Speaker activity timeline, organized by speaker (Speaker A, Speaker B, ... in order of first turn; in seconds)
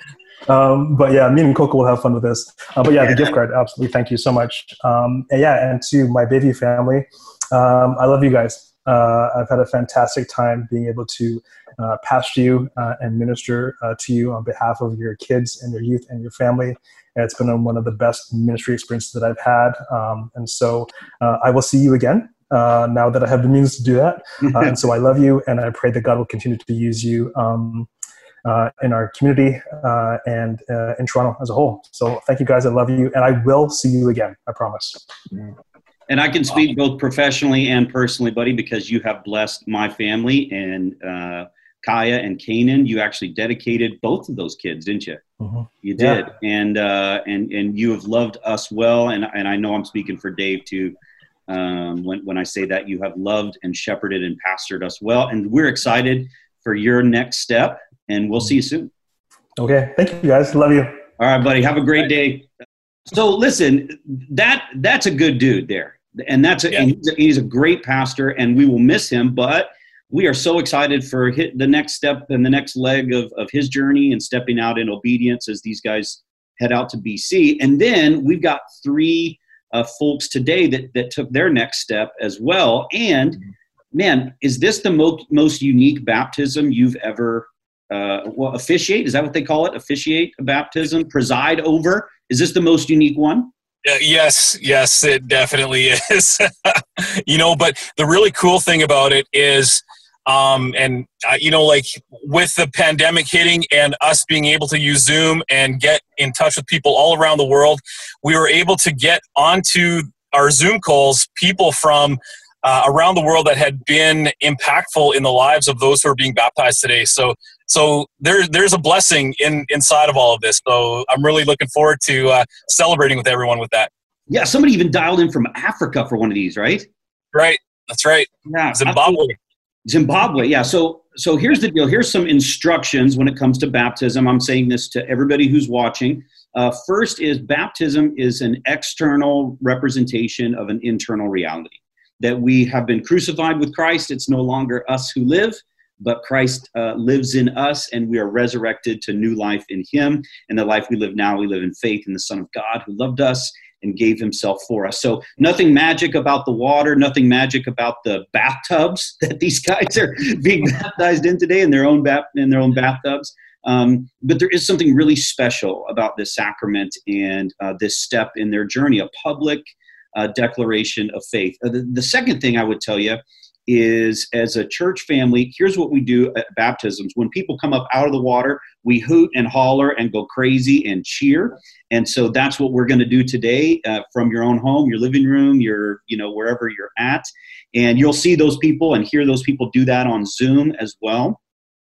Speaker A: 0.5-27.9, 28.4-35.1, 45.4-46.2, 59.6-61.0
Speaker B: 36.1-45.2, 45.8-51.0, 51.5-58.9, 61.2-62.5, 63.1-83.4, 83.9-93.5, 124.3-126.9, 128.5-129.3, 129.9-191.4
Speaker C: 93.8-123.9, 127.3-129.3